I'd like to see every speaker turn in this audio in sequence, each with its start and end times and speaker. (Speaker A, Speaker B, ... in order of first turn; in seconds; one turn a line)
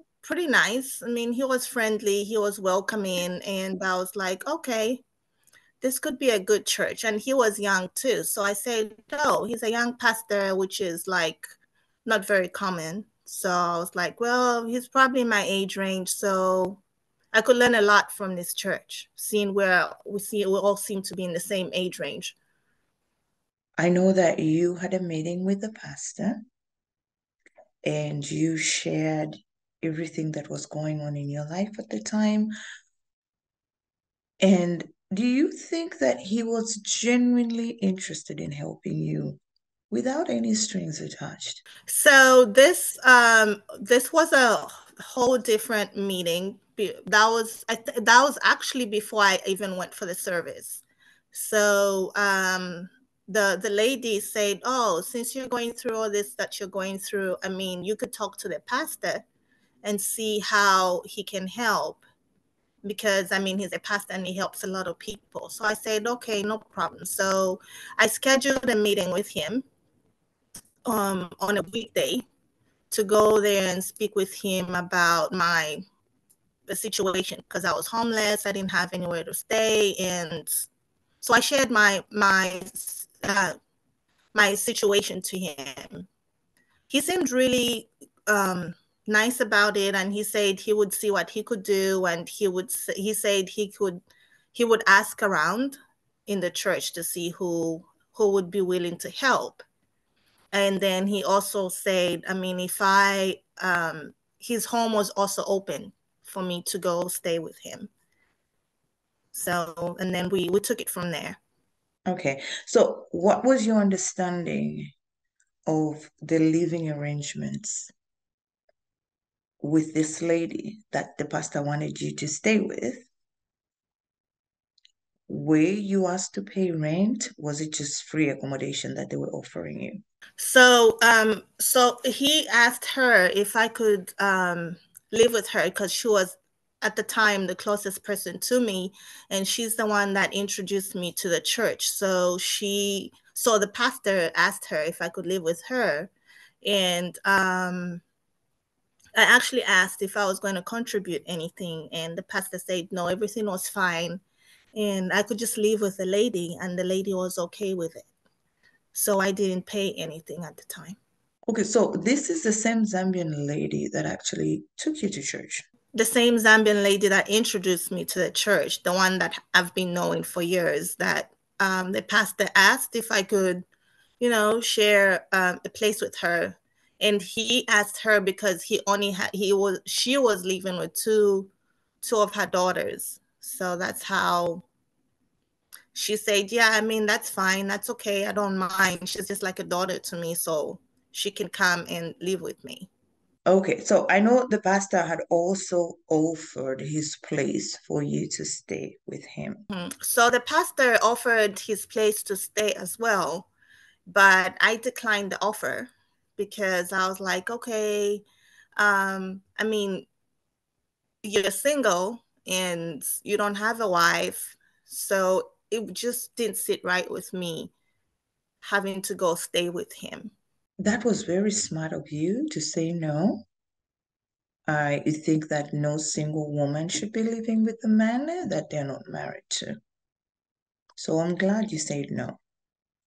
Speaker A: 0.2-5.0
Speaker A: 5.8-11.5
Speaker A: 12.1-16.8
Speaker A: 17.3-22.4
Speaker B: 23.8-26.5
Speaker B: 27.8-32.5
Speaker B: 34.4-39.4
Speaker B: 39.9-41.6
Speaker A: 41.9-59.2
Speaker A: 59.8-62.0
Speaker A: 62.8-69.7
Speaker A: 70.9-72.2
Speaker A: 72.9-75.8
Speaker A: 76.7-80.7
Speaker A: 81.2-83.6
Speaker A: 84.3-86.1
Speaker A: 86.9-94.0
Speaker A: 94.5-99.7
Speaker A: 100.5-107.9
Speaker A: 109.3-111.4
Speaker B: 112.1-114.9
Speaker B: 115.7-117.9
Speaker B: 119.6-123.1
Speaker B: 125.3-130.0
Speaker A: 130.4-146.1
Speaker A: 146.6-148.0
Speaker A: 149.2-154.2
Speaker A: 154.8-158.1
Speaker A: 158.9-161.0
Speaker B: 161.5-165.7
Speaker A: 165.9-173.7
Speaker A: 174.2-181.5
Speaker A: 182.0-184.7
Speaker A: 185.9-192.9
Speaker B: 193.5-199.7
Speaker A: 199.7-203.5
Speaker A: 204.1-208.2
Speaker A: 208.8-210.1
Speaker A: 211.2-217.7
Speaker A: 218.6-220.3
Speaker B: 220.8-223.4
Speaker B: 224.7-229.8
Speaker B: 231.0-232.4